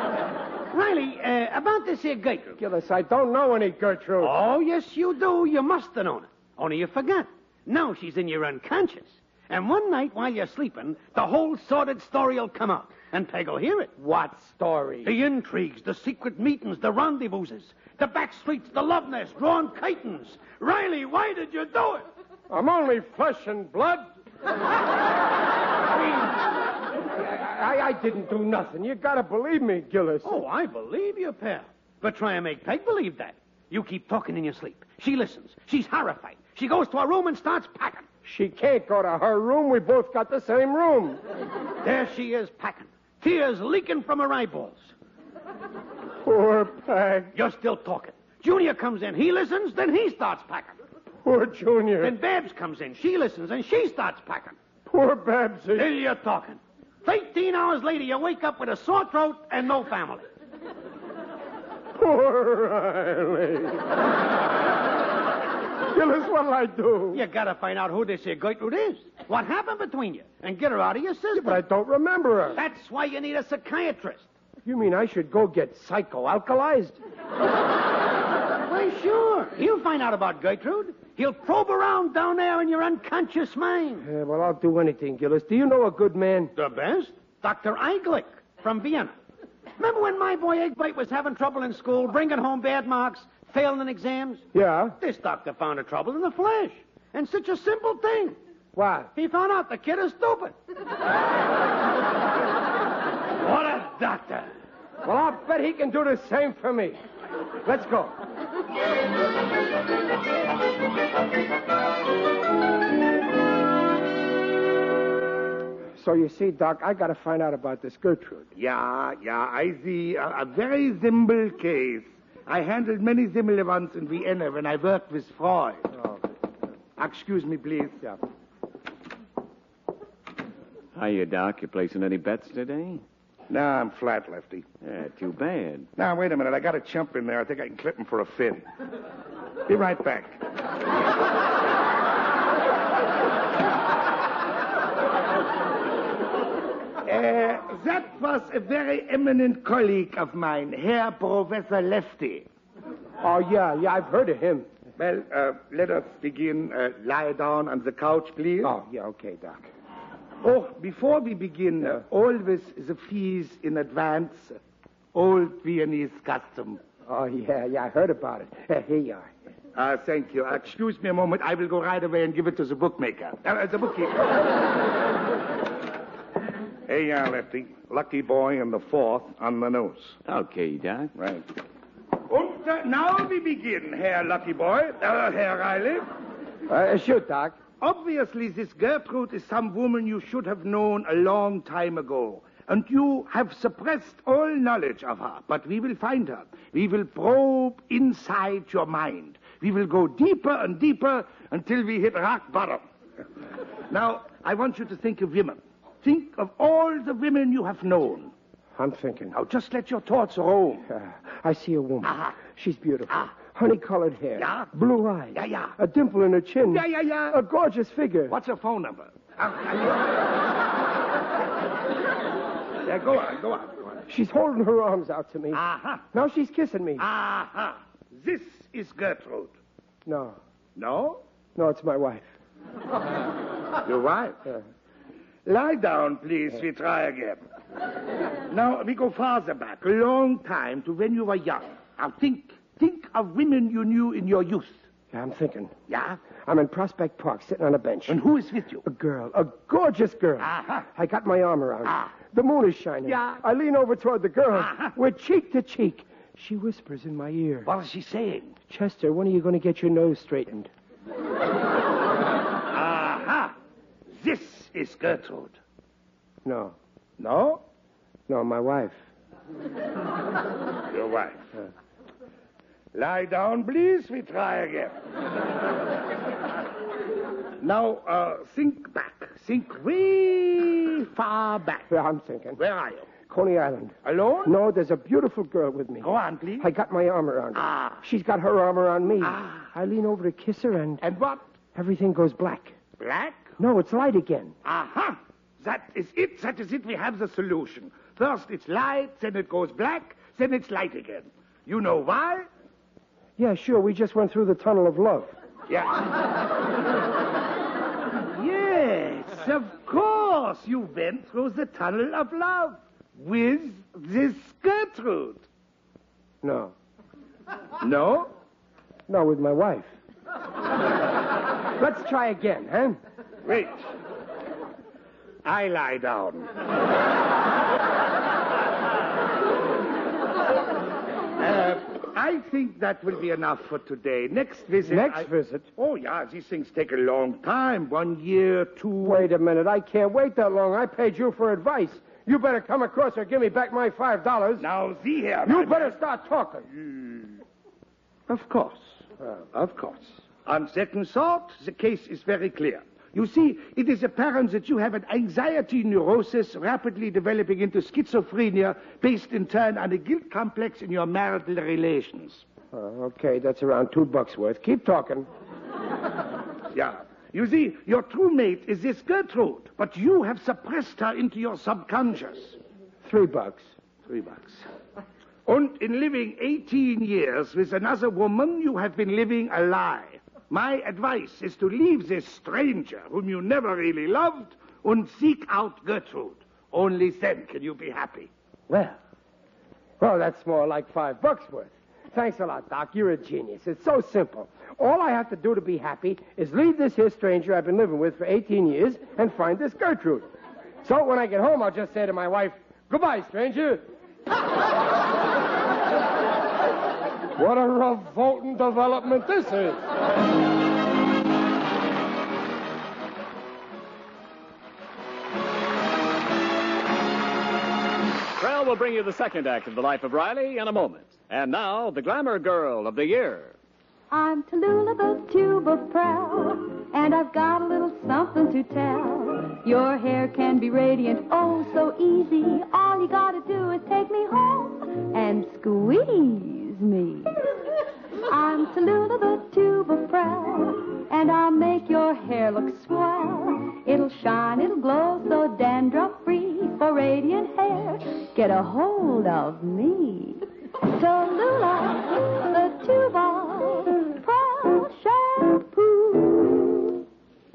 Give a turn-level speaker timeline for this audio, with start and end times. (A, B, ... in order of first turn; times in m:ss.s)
0:00.7-0:02.6 A
0:02.6-0:04.4 B
0:04.2-0:13.9 A
0:14.0-0:15.2 B
0:15.0-0:22.1 A
0:22.5-0:24.1 B
0:27.1-0:30.4 B
0:30.2-0:38.1 A
0:38.2-0:41.2 B
0:41.8-0:44.9 A
0:46.2-0:47.3 B
0:47.4-0:50.7 A
0:51.2-0:52.2 B
0:52.0-0:54.6 A
0:54.9-0:55.9 B
0:55.8-1:00.3 A
1:02.0-1:03.8 B
1:05.9-1:07.2 B
1:07.1-1:11.6 A
1:11.4-1:12.6 B
1:12.6-1:14.3 A
1:14.6-1:17.0 B
1:18.7-1:24.1 A
1:24.0-1:26.5 B
1:26.6-1:29.1 A
1:29.8-1:34.4 A
1:34.5-1:35.0 B
1:35.0-1:38.4 A
1:38.8-1:39.1 B
1:39.2-1:40.5 A
1:43.4-1:44.5 A
1:45.0-1:47.0 B
1:47.6-1:48.2 B
1:56.0-1:58.5 B
1:58.6-2:05.9 C
2:07.0-2:08.2 C
2:11.0-2:13.0 D
2:13.5-2:14.7 C
2:14.8-2:15.9 D
2:16.0-2:18.6 C
2:19.7-2:20.4 C
2:27.0-2:32.5 C
2:33.2-2:34.7 B
2:35.0-2:38.7 C
2:38.6-2:39.7 B
2:40.4-2:44.6 C
2:45.1-2:46.8 C
2:47.1-2:49.3 B
2:49.8-2:54.5 C
2:56.9-3:00.2 C
3:00.3-3:01.1 D
3:01.2-3:01.4 C
3:02.3-3:06.1 C
3:06.7-3:07.6 B
3:07.8-3:22.8 C
3:23.9-3:28.3 C
3:28.8-3:29.4 B
3:29.3-3:30.9 C
3:30.9-3:38.3 B
3:32.0-3:32.3 C
3:34.4-3:34.7 C
3:35.4-3:35.8 C
3:36.7-3:37.4 C
3:38.3-3:40.1 C
3:42.8-3:44.0 C
3:44.1-3:45.6 B
3:45.5-3:46.0 C
3:46.1-3:47.0 B
3:47.0-3:49.5 C
3:50.1-3:50.4 B
3:50.8-3:51.2 C
3:51.6-3:52.3 B
3:53.8-3:54.4 C
3:55.4-3:57.4 C
3:58.5-4:04.8 C
4:05.1-4:05.8 B
4:05.9-4:06.2 C
4:06.4-4:08.2 B
4:08.1-4:08.8 C
4:08.8-4:17.7 B
4:10.4-4:10.9 C
4:14.6-4:14.9 C
4:17.6-4:18.5 C
4:18.7-4:20.7 B
4:22.7-4:23.5 C
4:24.2-4:25.6 C
4:26.4-4:26.8 B
4:27.2-4:27.6 C
4:28.3-4:29.0 B
4:30.9-4:31.4 C
4:32.9-4:35.0 C
4:37.6-4:41.9 C
4:41.9-4:42.6 B
4:42.6-4:43.1 C
4:43.2-4:46.1 B
4:44.0-4:44.5 C
4:46.0-4:46.6 C
4:46.6-4:51.0 B
4:47.6-4:48.0 C
4:49.2-4:49.6 C
4:51.0-4:51.4 C
4:51.8-4:52.8 B
4:53.0-4:53.5 C
4:53.6-4:54.6 B
4:54.6-5:02.5 C
5:03.4-5:05.3 B
5:05.7-5:06.0 C
5:08.4-5:15.4 C
5:16.4-5:16.7 B
5:17.8-5:18.3 C
5:19.1-5:19.9 B
5:21.8-5:23.0 B
5:23.4-5:23.8 C
5:25.4-5:26.5 C
5:31.4-5:39.3 C
5:34.8-5:35.7 B
5:39.0-5:44.6 B
5:44.6-5:45.9 C
5:45.4-5:46.7 B
5:48.3-5:49.0 C
5:49.5-6:02.4 C
6:02.7-6:05.3 B
6:06.7-6:12.6 C
6:13.0-6:13.7 B
6:14.1-6:14.6 C
6:15.5-6:28.3 C
6:28.7-6:29.0 B
6:30.0-6:40.3 B
6:40.8-6:43.8 B
6:47.4-6:49.8 B
6:58.4-7:03.6 D
7:04.1-7:17.5 E
7:18.3-7:37.0 E